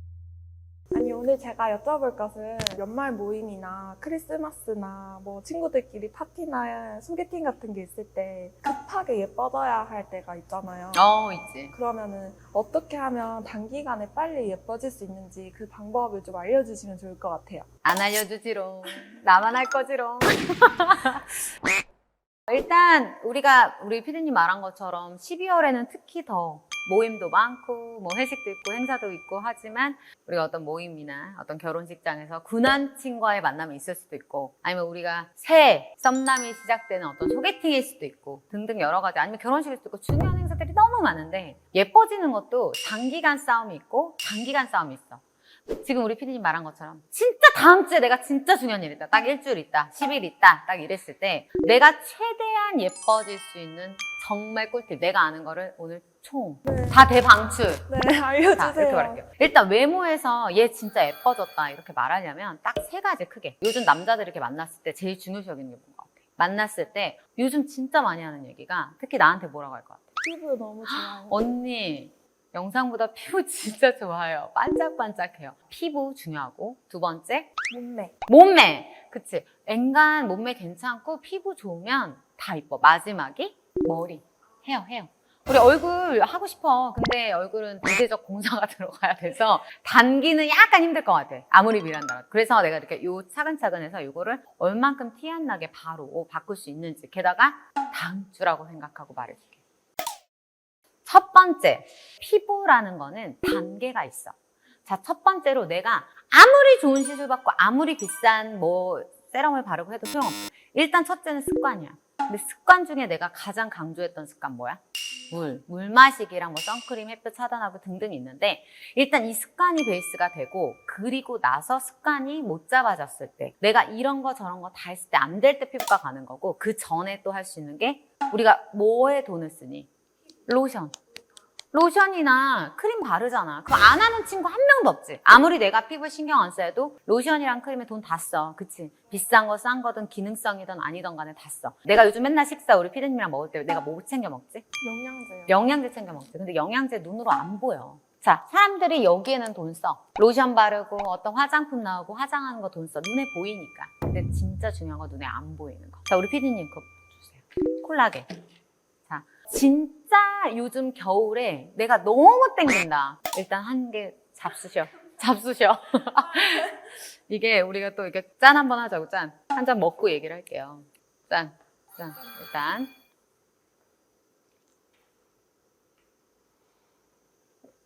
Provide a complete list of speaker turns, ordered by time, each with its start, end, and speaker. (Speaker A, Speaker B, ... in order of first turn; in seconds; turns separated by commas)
Speaker A: 0.9-11.1, Speaker B: 10.9-11.7, Speaker A: 11.7-17.7, Speaker B: 17.8-21.4, Speaker B: 22.5-45.2, Speaker B: 45.8-57.9, Speaker A: 56.6-57.0, Speaker A: 57.9-59.2, Speaker B: 58.5-70.1, Speaker A: 70.2-71.4, Speaker B: 70.8-77.5, Speaker A: 77.7-78.1, Speaker B: 78.3-99.6, Speaker B: 101.1-129.9, Speaker B: 130.5-131.0, Speaker B: 131.7-144.7, Speaker A: 144.8-145.6, Speaker B: 145.5-158.3, Speaker B: 159.1-172.9